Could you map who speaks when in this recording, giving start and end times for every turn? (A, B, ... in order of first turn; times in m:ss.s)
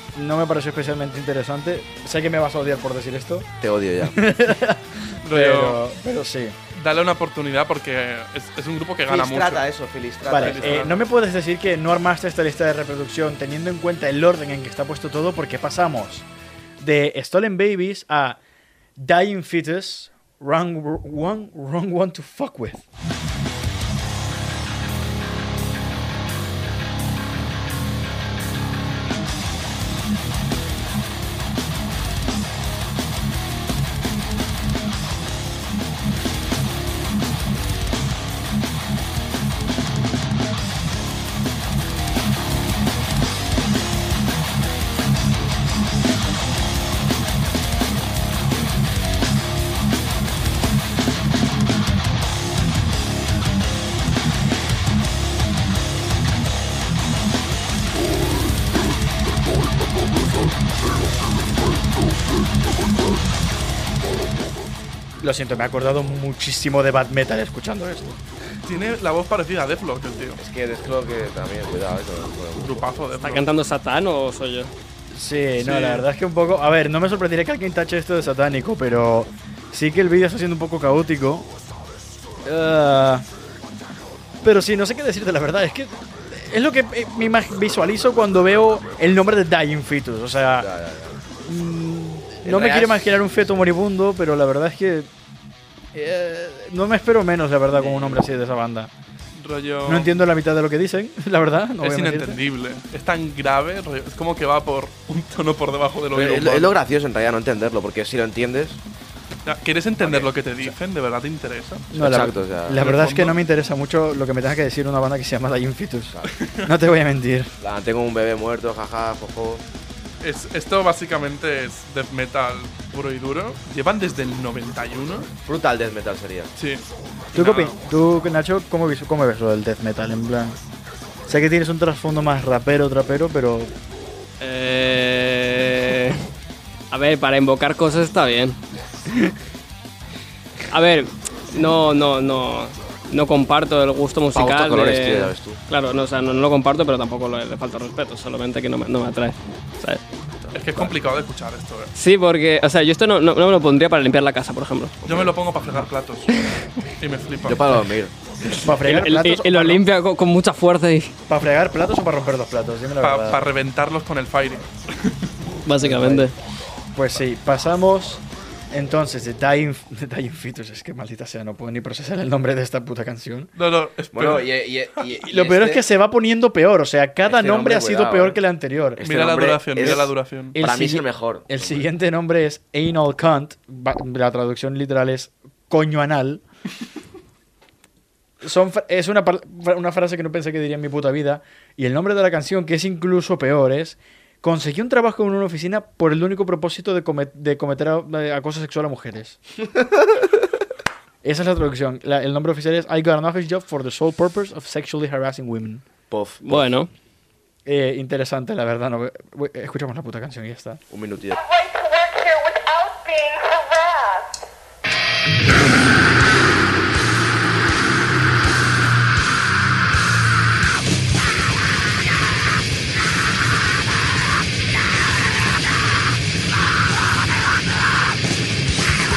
0:00.1-0:03.5 A
0:03.6-0:04.2 B
0:04.0-0:06.6 A
0:05.2-0:05.8 C
0:06.7-0:09.7 C
0:09.1-0:11.0 B
0:10.2-0:16.2 A
0:10.3-0:11.0 C
0:16.8-0:18.4 A
0:19.0-0:22.8 A
1:05.2-1:08.2 A
1:08.6-1:10.4 C
1:10.4-1:12.9 B
1:12.6-1:13.5 C
1:13.2-1:14.7 D
1:15.1-1:21.5 A
1:15.6-1:16.0 C
1:22.4-1:23.3 A
1:24.4-1:30.7 A
1:30.6-1:31.2 B
1:31.4-1:35.1 A
1:32.4-1:33.5 B
1:35.9-1:38.9 A
1:37.7-1:38.3 B
1:39.4-1:40.1 C
1:39.8-1:42.4 A
1:41.8-1:46.7 C
1:46.1-1:48.8 B
1:49.4-1:51.9 C
1:50.0-1:50.3 B
1:51.9-1:57.5 A
1:52.0-1:52.8 B
1:52.8-1:53.4 C
1:56.4-1:56.7 C
1:57.6-1:59.6 B
2:00.2-2:05.3 C
2:05.4-2:06.5 B
2:06.6-2:07.8 C
2:07.4-2:10.6 A
2:11.3-2:13.7 A
2:14.4-2:16.2 D
2:16.9-2:18.6 D
2:20.7-2:30.0 D
2:24.4-2:25.6 B
2:30.5-2:31.9 C
2:31.9-2:35.0 D
2:35.0-2:36.4 C
2:37.0-2:37.8 C
2:37.4-2:38.1 B
2:38.5-2:41.1 D
2:38.6-2:39.8 A
2:41.3-2:43.5 A
2:43.0-2:44.7 C
2:45.6-2:46.3 D
2:45.9-2:46.2 A
2:46.9-2:53.5 A
2:53.6-2:55.0 C
2:54.1-2:55.8 B
2:55.2-2:59.0 A
2:57.2-2:58.4 B
2:59.0-3:01.9 B
2:59.0-3:00.6 C
2:59.8-3:06.4 A
3:08.4-3:19.4 A
3:21.2-3:25.8 A
3:26.1-3:26.7 B
3:26.4-3:26.9 D
3:27.6-3:30.8 A
3:30.9-3:31.4 B
3:31.6-3:34.2 E